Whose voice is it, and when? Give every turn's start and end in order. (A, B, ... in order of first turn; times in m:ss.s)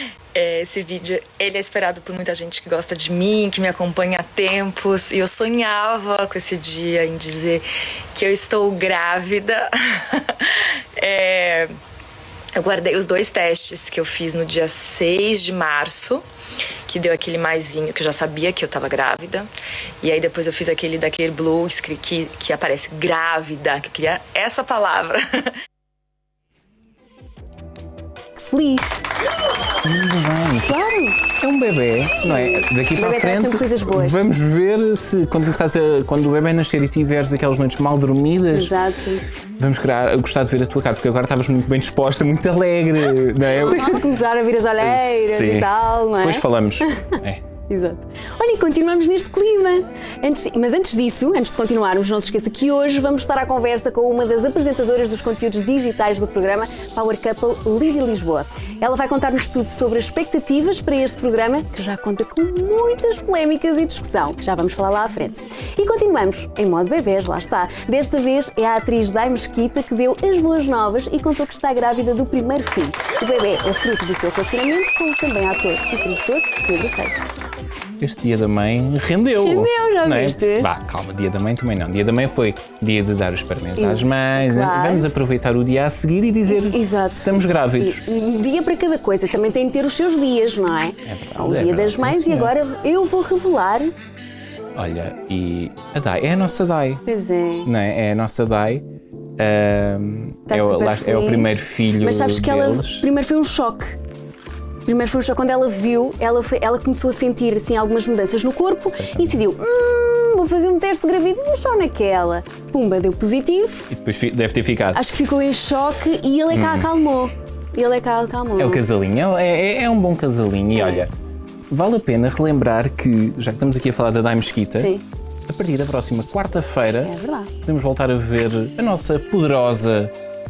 0:00.3-0:11.7 A
0:12.6-0:16.2 A
0:16.9-0:19.4 A
0:20.0-0:25.4 A
0:28.4-0:29.0 B
0:29.8-0:30.8 C
0:30.6-0:31.2 B
0:31.4-0:38.8 C
0:32.2-0:34.2 B
0:38.5-0:39.2 B
0:39.6-0:44.0 C
0:43.4-1:17.2 B
0:44.8-0:47.4 C
1:18.0-1:28.0 C
1:19.4-1:20.7 B
1:23.8-1:25.1 B
1:26.5-1:33.9 B
1:31.0-1:32.5 C
1:34.8-1:37.0 C
1:37.0-1:37.7 B
1:37.6-1:38.8 C
1:39.4-1:43.1 C
1:40.5-1:44.0 B
1:44.8-1:53.9 B
1:48.9-1:49.4 C
1:53.9-1:55.0 C
1:54.9-1:58.8 B
1:56.5-1:56.9 C
1:58.6-2:01.1 C
2:00.7-2:01.1 B
2:01.7-2:04.9 C
2:04.8-2:05.0 B
2:05.5-2:10.1 C
2:07.0-2:07.5 B